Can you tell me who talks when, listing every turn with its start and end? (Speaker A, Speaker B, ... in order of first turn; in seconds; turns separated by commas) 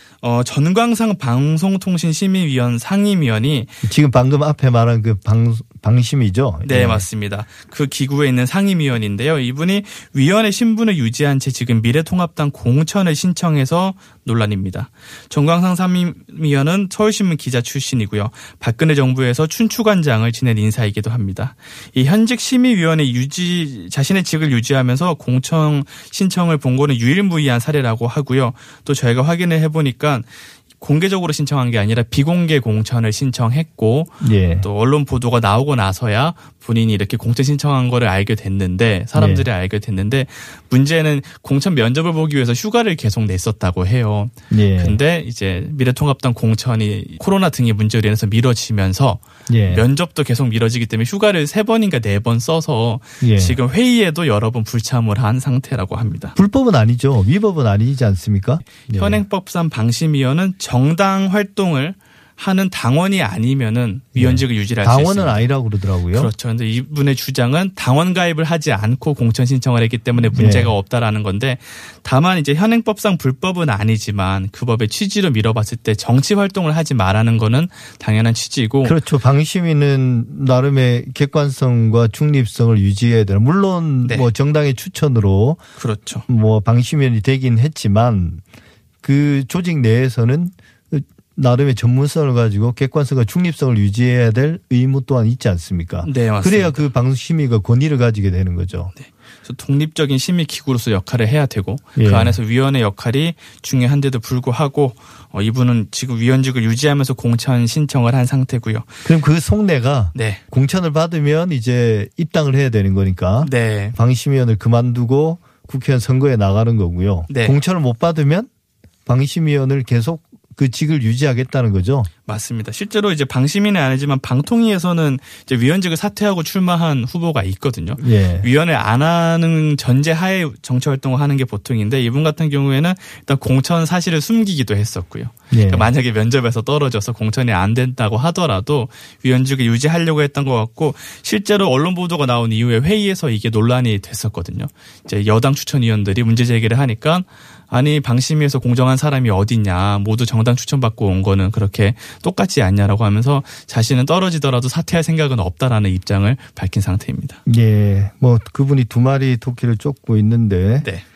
Speaker A: 0.2-3.8, Speaker B: 3.8-7.0, Speaker A: 6.6-56.4, Speaker B: 34.2-34.7, Speaker B: 39.1-39.5, Speaker B: 44.5-45.0, Speaker B: 49.5-49.9, Speaker B: 53.2-53.6, Speaker B: 56.4-59.2, Speaker A: 58.9-65.5, Speaker B: 64.1-66.3, Speaker A: 66.1-79.0, Speaker B: 70.3-70.7, Speaker B: 78.8-85.6, Speaker A: 85.8-86.2, Speaker B: 86.3-88.4, Speaker B: 89.0-98.9, Speaker A: 96.0-96.9, Speaker A: 98.9-108.9, Speaker B: 102.0-102.4, Speaker B: 109.0-118.5, Speaker A: 110.1-110.4, Speaker A: 113.4-114.0, Speaker A: 117.3-117.6, Speaker B: 119.0-122.1, Speaker A: 122.2-157.4, Speaker B: 128.0-128.5, Speaker B: 135.5-135.9, Speaker B: 157.4-160.9